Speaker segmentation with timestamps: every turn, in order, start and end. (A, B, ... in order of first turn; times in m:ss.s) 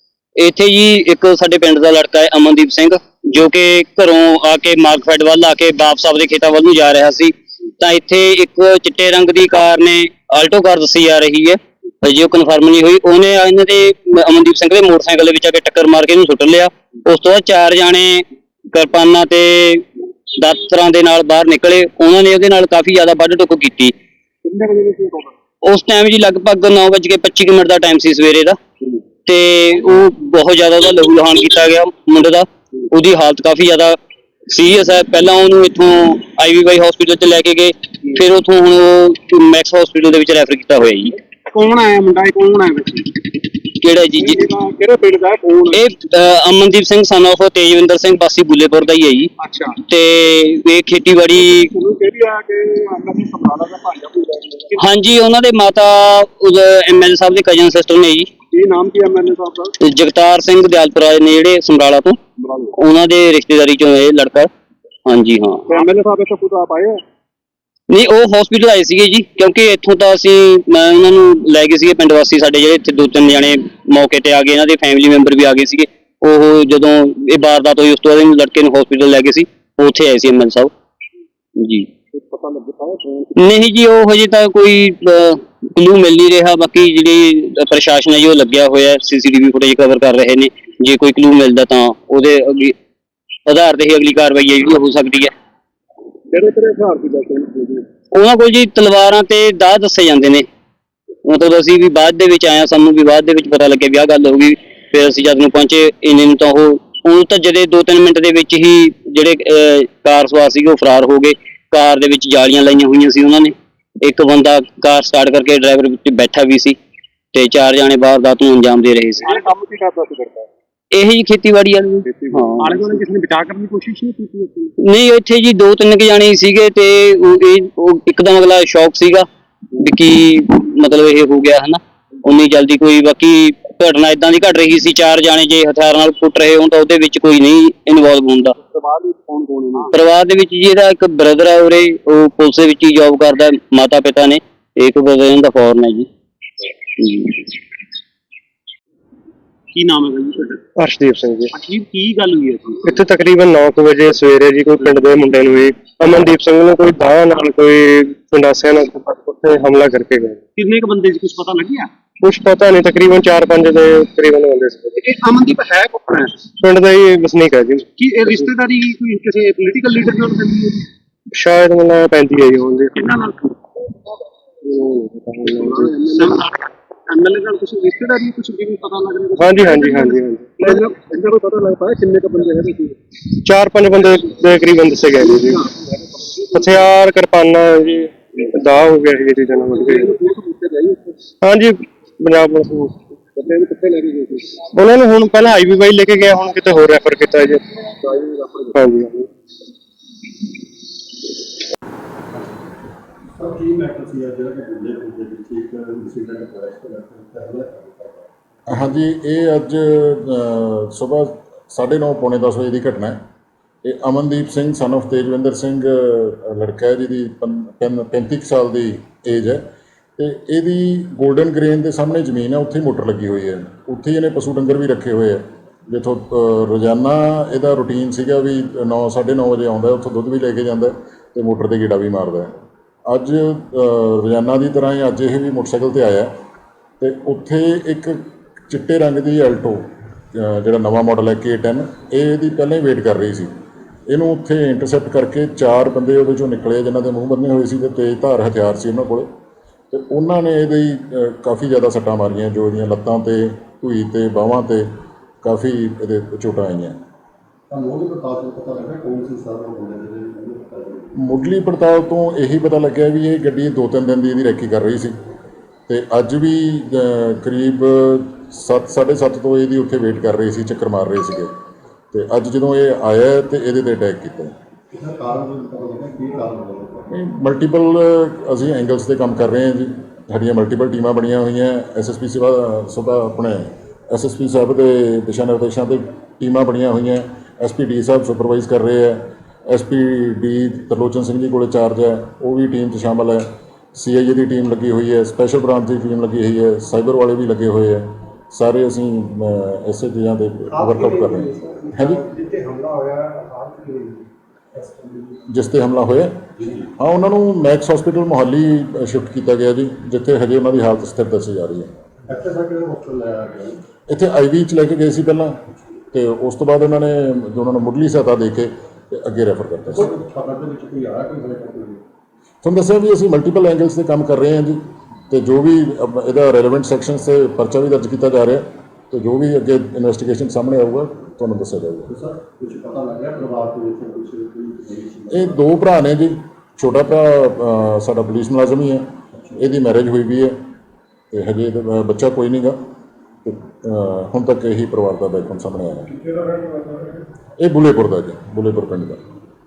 0:00.4-0:24.0 A
0:24.4-0:25.3 B
0:25.6-0:28.6 A
0:29.2-0:34.0 A
0:34.5-0:41.2 A
0:41.5-0:43.3 B
0:43.6-0:44.5 A
0:44.2-0:45.8 B
0:45.7-0:51.7 A
0:49.4-0:49.8 B
0:51.6-0:54.8 B
0:54.7-0:58.3 A
0:58.5-0:59.7 B
0:59.8-1:04.5 A
1:02.4-1:02.7 B
1:05.1-1:05.9 A
1:05.7-1:07.0 B
1:07.9-1:20.7 A
1:21.6-1:21.9 A
1:22.1-1:23.3 B
1:23.4-1:32.8 A
1:33.5-1:35.3 A
1:36.3-1:37.8 B
1:38.1-1:40.5 A
1:41.2-1:56.8 A
1:57.3-1:59.5 A
1:59.2-2:00.5 B
2:00.9-2:02.8 A
2:02.4-2:04.7 B
2:04.8-2:18.6 A
2:18.6-2:19.9 B
2:19.9-2:26.1 A
2:26.9-2:27.6 A
2:29.7-2:30.6 B
2:30.8-2:31.5 C
2:31.5-2:32.9 B
2:32.8-2:40.4 C
2:40.6-2:41.9 B
2:42.2-2:45.0 C
2:45.0-2:46.4 B
2:46.6-2:47.9 C
2:48.0-2:50.8 B
2:51.3-2:53.0 C
2:53.0-2:53.6 B
2:54.6-2:56.0 C
2:55.5-3:03.0 B
2:59.4-3:00.9 C
3:03.3-3:05.7 C
3:06.4-3:10.1 C
3:09.7-3:11.2 B
3:11.4-3:13.0 C
3:13.4-3:14.6 B
3:14.7-3:17.6 C
3:18.0-3:18.8 B
3:18.8-3:19.2 C
3:23.4-3:28.3 D
3:28.7-3:33.2 E
3:33.8-3:39.6 E
3:40.2-3:52.5 E
3:53.1-3:56.3 E
3:57.0-4:03.5 E
4:04.1-4:09.3 E
4:09.9-4:14.9 E
4:15.4-4:17.0 E
4:17.7-4:21.2 D
4:21.2-4:25.2 E
4:25.9-4:31.5 E
4:32.1-4:34.5 E
4:34.9-4:37.1 D
4:37.1-5:02.2 E
5:00.7-5:05.4 D
5:05.5-5:11.9 E
5:06.6-5:06.9 D
5:12.3-5:13.8 D
5:14.1-5:20.1 E
5:19.9-5:22.0 D
5:22.6-5:32.1 E
5:32.1-5:35.6 D
5:35.3-5:40.6 E
5:41.3-5:42.8 E
5:43.4-5:46.2 E
5:46.3-5:47.2 C
5:47.6-5:49.2 E